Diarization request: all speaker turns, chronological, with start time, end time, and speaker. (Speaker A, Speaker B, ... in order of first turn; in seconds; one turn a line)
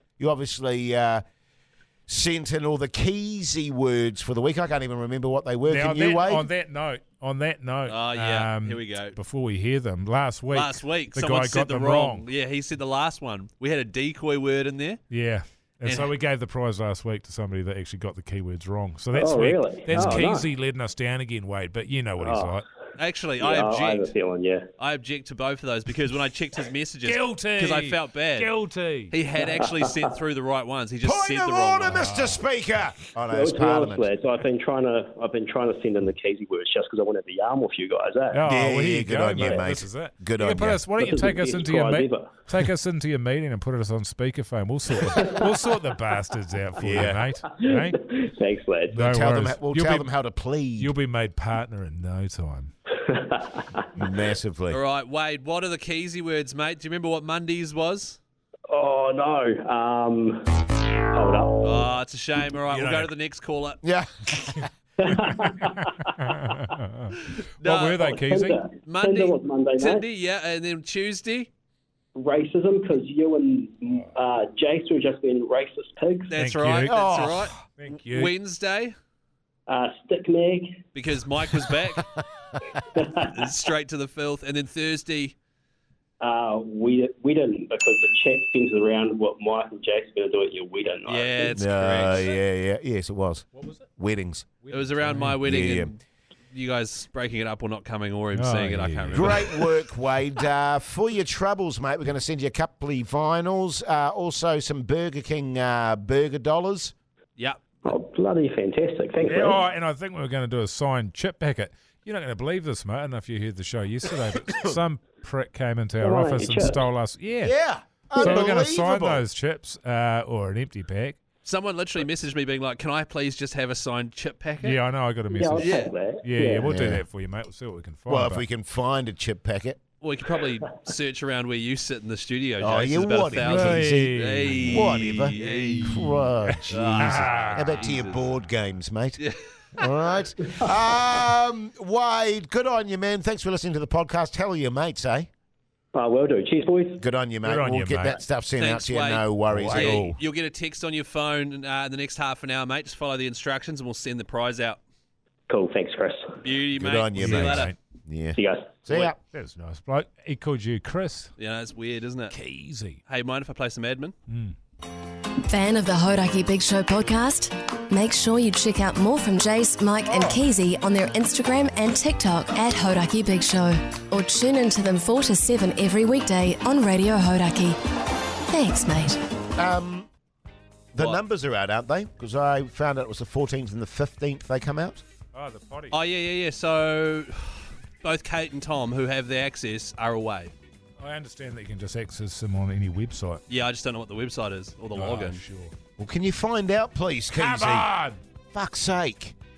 Speaker A: 0.2-1.2
Speaker A: 2.1-6.5
Speaker B: 5.7-12.3
Speaker C: 7.9-9.2
Speaker C: 10.5-15.0
Speaker B: 15.1-22.6
Speaker C: 15.8-16.1
Speaker D: 19.1-20.5
Speaker D: 22.2-22.6
Speaker C: 23.0-24.1
Speaker D: 23.4-24.7
Speaker C: 24.8-28.5
Speaker B: 27.0-29.1
Speaker C: 29.1-32.1
Speaker D: 29.4-29.9
Speaker A: 31.0-34.1
Speaker B: 31.9-32.4
Speaker D: 33.3-38.4
Speaker B: 38.3-48.1
Speaker A: 38.5-40.8
Speaker D: 39.4-39.6
Speaker D: 41.0-42.3
Speaker A: 46.8-47.2
Speaker D: 47.6-49.0
Speaker B: 48.9-50.1
Speaker A: 49.0-50.9
Speaker B: 50.8-52.7
Speaker D: 53.1-53.6
Speaker A: 54.0-54.8
Speaker C: 54.7-58.2
Speaker D: 58.7-60.5
Speaker D: 61.1-61.7
Speaker C: 61.6-63.8
Speaker B: 62.7-63.1
Speaker A: 63.8-64.7
Speaker D: 65.0-65.8
Speaker B: 65.1-68.7
Speaker C: 67.6-68.1
Speaker D: 68.0-70.1
Speaker C: 68.8-71.5
Speaker D: 72.2-76.3
Speaker C: 76.3-79.0
Speaker B: 76.4-78.3
Speaker A: 76.9-77.5
Speaker D: 79.7-80.9
Speaker C: 80.9-82.1
Speaker D: 82.9-83.4
Speaker C: 83.2-85.4
Speaker D: 86.2-91.6
Speaker C: 91.1-92.3
Speaker A: 91.6-94.5
Speaker B: 93.6-93.8
Speaker B: 94.6-95.4
Speaker C: 94.7-96.0
Speaker A: 95.4-95.9
Speaker C: 96.5-99.5
Speaker B: 98.3-99.5
Speaker A: 99.1-106.9
Speaker C: 107.4-107.6
Speaker D: 107.8-109.6
Speaker B: 109.2-117.5
Speaker A: 114.3-114.8
Speaker D: 116.0-116.8
Speaker A: 117.4-119.2
Speaker B: 118.1-121.2
Speaker D: 118.2-118.4
Speaker C: 121.4-124.8
Speaker B: 124.6-128.4
Speaker D: 125.3-126.8
Speaker C: 125.5-125.9
Speaker A: 126.6-127.0
Speaker A: 128.1-129.8
Speaker C: 130.0-136.1
Speaker A: 132.6-134.1
Speaker B: 133.4-137.9
Speaker A: 134.7-139.2
Speaker C: 136.7-138.4
Speaker A: 139.8-145.3
Speaker D: 145.9-147.0
Speaker A: 147.0-150.1
Speaker B: 147.4-148.2
Speaker C: 148.6-154.8
Speaker B: 149.5-150.2
Speaker D: 155.5-156.4
Speaker C: 156.4-157.7
Speaker A: 156.8-159.2
Speaker B: 157.2-157.8
Speaker D: 158.4-158.8
Speaker B: 159.3-161.3
Speaker C: 161.4-162.4
Speaker B: 162.3-163.0
Speaker C: 163.1-164.2
Speaker B: 164.3-164.6
Speaker E: 165.5-177.8
Speaker A: 170.1-170.4
Speaker E: 178.5-179.2
Speaker A: 179.6-180.1
Speaker A: 180.9-185.0
Speaker B: 185.3-186.0
Speaker C: 185.9-190.5
Speaker B: 191.0-193.4
Speaker C: 193.5-195.4
Speaker B: 194.9-195.7
Speaker A: 196.0-197.9
Speaker B: 197.3-198.2
Speaker A: 198.5-199.3